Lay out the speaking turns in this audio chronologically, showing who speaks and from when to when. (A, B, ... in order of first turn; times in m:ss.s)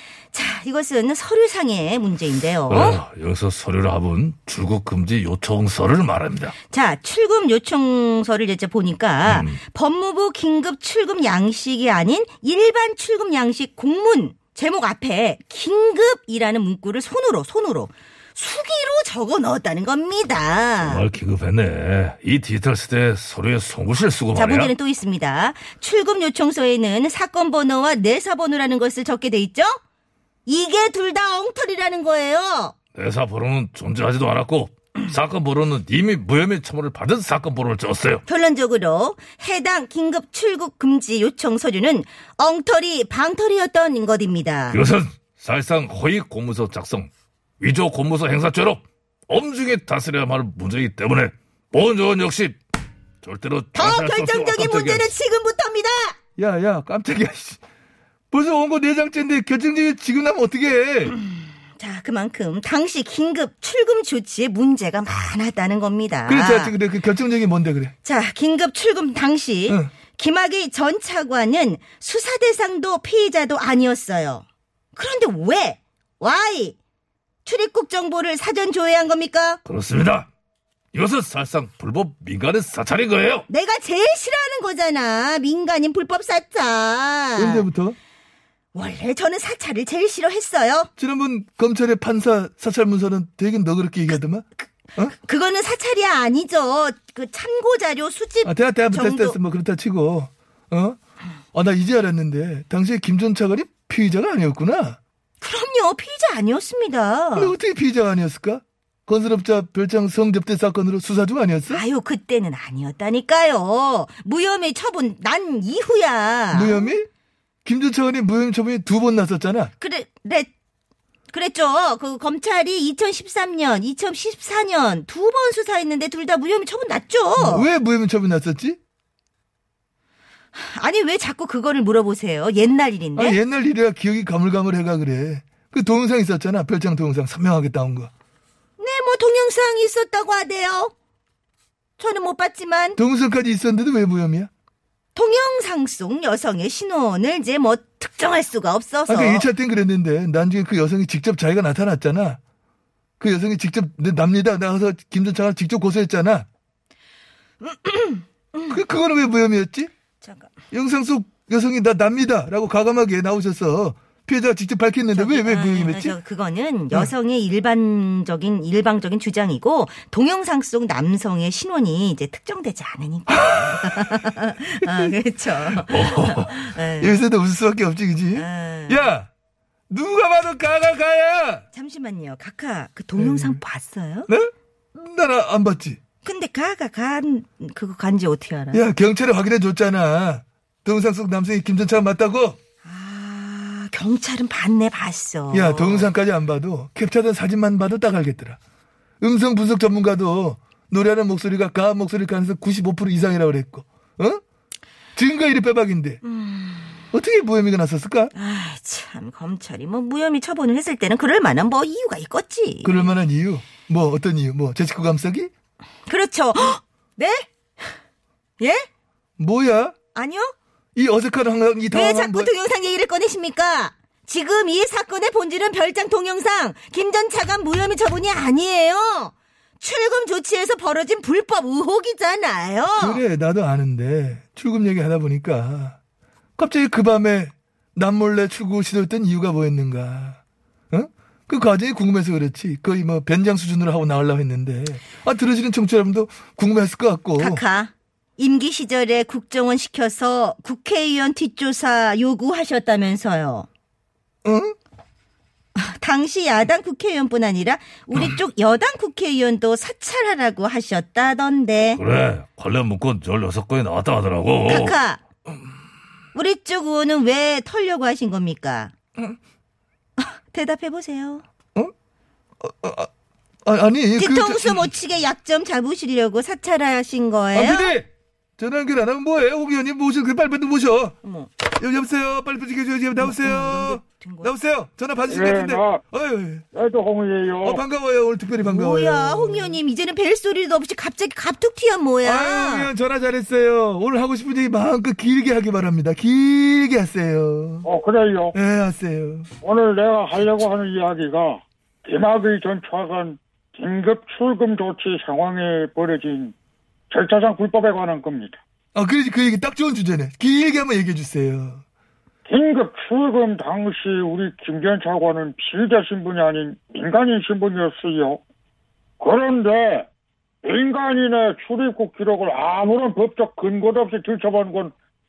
0:00.3-0:03.0 A
0:02.7-0:06.6 B
0:06.7-0:21.0 A
0:09.3-0:09.6 B
0:20.8-0:24.7 B
0:24.3-0:29.8 A
0:30.5-0:32.8 A
0:33.0-0:38.2 B
0:38.3-0:44.8 A
0:44.7-0:52.6 B
0:53.2-0:55.1 B
0:53.7-0:56.2 A
0:56.4-0:57.6 C
0:58.3-1:01.2 C
1:01.8-1:06.7 A
1:06.3-1:07.9 C
1:08.0-1:16.8 A
1:17.4-1:19.6 A
1:19.6-1:20.3 B
1:20.9-1:23.5 B
1:23.5-1:27.7 A
1:27.4-1:28.0 C
1:28.7-1:30.9 A
1:31.0-1:35.2 C
1:34.6-1:39.4 A
1:38.4-1:41.0 C
1:41.5-1:45.0 C
1:45.4-1:47.5 A
1:47.4-1:51.8 C
1:51.7-1:56.9 A
1:56.5-1:57.1 C
1:57.6-1:59.7 C
1:59.8-2:00.5 A
2:01.3-2:07.7 A
2:07.4-2:08.8 C
2:10.6-2:13.4 A
2:13.2-2:18.1 C
2:18.8-2:20.9 A
2:22.0-2:23.0 A
2:23.0-2:24.5 C
2:25.2-2:29.5 A
2:29.1-2:32.4 C
2:33.2-2:36.5 C
2:37.6-2:38.8 A
2:38.7-2:39.9 C
2:40.2-2:40.5 A
2:40.7-2:46.2 C
2:45.1-2:57.2 A
2:53.3-2:55.2 C
2:55.9-2:56.5 B
2:57.0-2:59.3 C
2:58.4-2:59.1 A
2:59.9-3:01.6 C
3:01.7-3:04.3 A
3:03.2-3:03.6 C
3:04.3-3:06.0 C
3:06.2-3:08.8 A
3:08.7-3:12.6 C
3:12.8-3:16.1 A
3:15.5-3:18.6 C
3:19.2-3:24.4 C
3:25.2-3:26.2 C
3:26.2-3:27.1 A
3:27.1-3:28.3 C
3:28.3-3:33.1 A
3:32.8-3:35.5 C
3:36.1-3:37.5 A
3:38.6-3:38.9 A
3:39.4-3:40.0 C
3:40.1-3:40.5 A
3:41.0-3:42.5 C
3:41.9-3:53.2 A
3:53.0-3:56.0 C
3:56.6-4:00.4 C
4:00.9-4:07.6 C
4:07.4-4:13.7 A
4:14.4-4:14.8 C
4:15.8-4:22.0 A
4:22.0-4:25.0 B
4:24.7-4:25.2 A
4:26.3-4:28.9 A
4:30.2-4:31.4 A
4:32.6-4:33.1 C
4:33.6-4:34.9 C
4:34.2-4:38.0 A
4:37.5-4:38.1 C
4:38.6-4:41.2 C
4:41.2-4:41.5 A
4:41.8-4:46.7 C
4:43.2-4:44.5 A
4:45.3-4:46.0 D
4:46.7-4:47.8 D
4:47.6-4:49.8 C
4:48.5-4:52.9 A
4:52.2-4:57.9 C
4:57.8-4:58.6 D
4:58.5-4:59.5 C
4:59.6-5:06.5 D
5:07.1-5:08.6 D
5:09.0-5:11.8 C
5:12.5-5:18.4 D
5:19.2-5:20.1 D
5:20.6-5:24.9 D